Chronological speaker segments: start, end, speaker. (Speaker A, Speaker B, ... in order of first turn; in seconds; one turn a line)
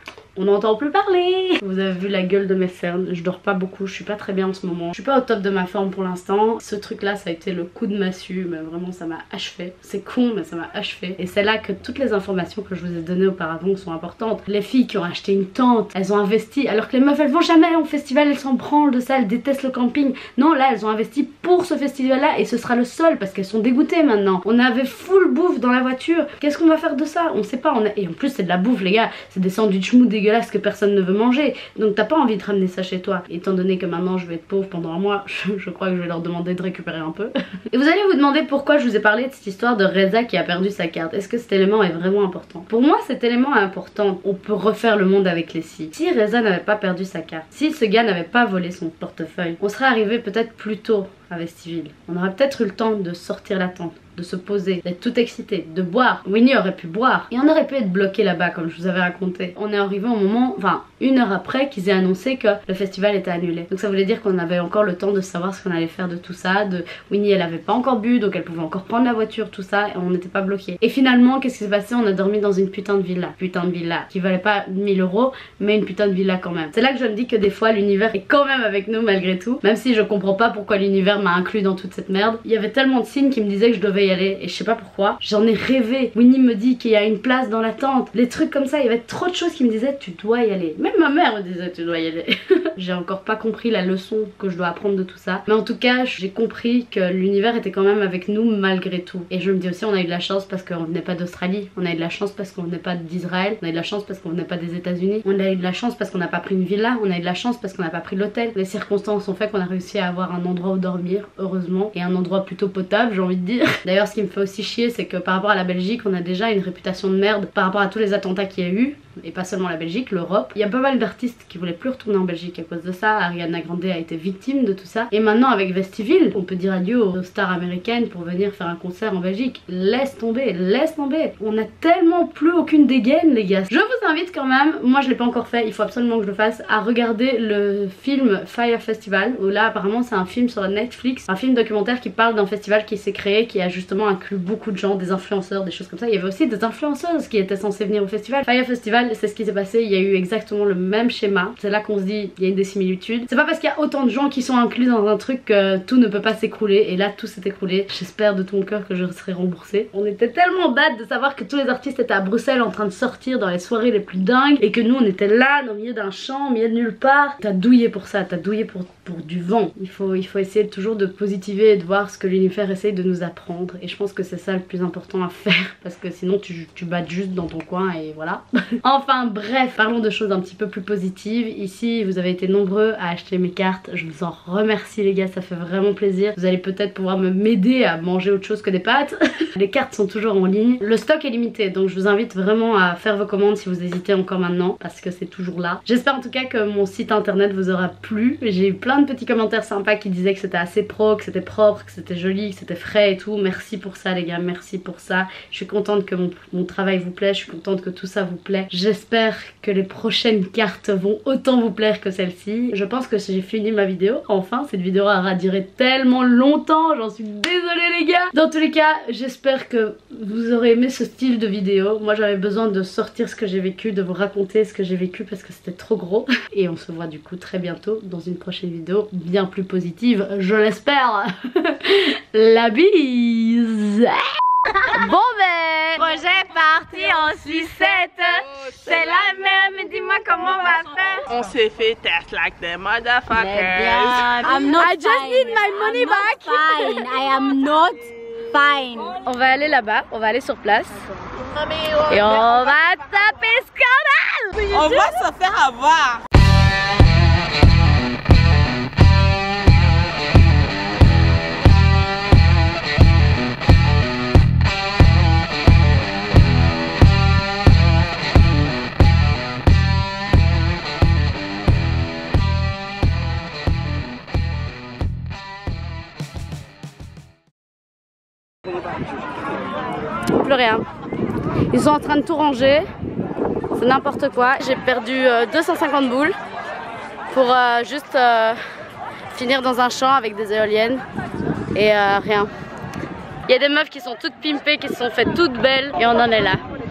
Speaker A: 0.4-234.3
Speaker B: 234.7-235.1
Speaker A: 234.9-236.1
Speaker B: 236.0-241.2
Speaker A: 238.8-241.2
Speaker C: 241.3-244.6
Speaker B: 243.3-249.2
Speaker A: 244.4-247.1
Speaker A: 249.2-251.1
Speaker A: 252.1-254.7
Speaker B: 252.2-253.8
Speaker B: 254.6-255.1
Speaker C: 254.7-256.2
Speaker A: 280.3-280.9
Speaker A: 281.7-282.9
Speaker A: 283.8-286.3
Speaker A: 287.3-288.6
Speaker A: 289.3-291.0
Speaker A: 291.7-292.5
Speaker A: 293.5-296.6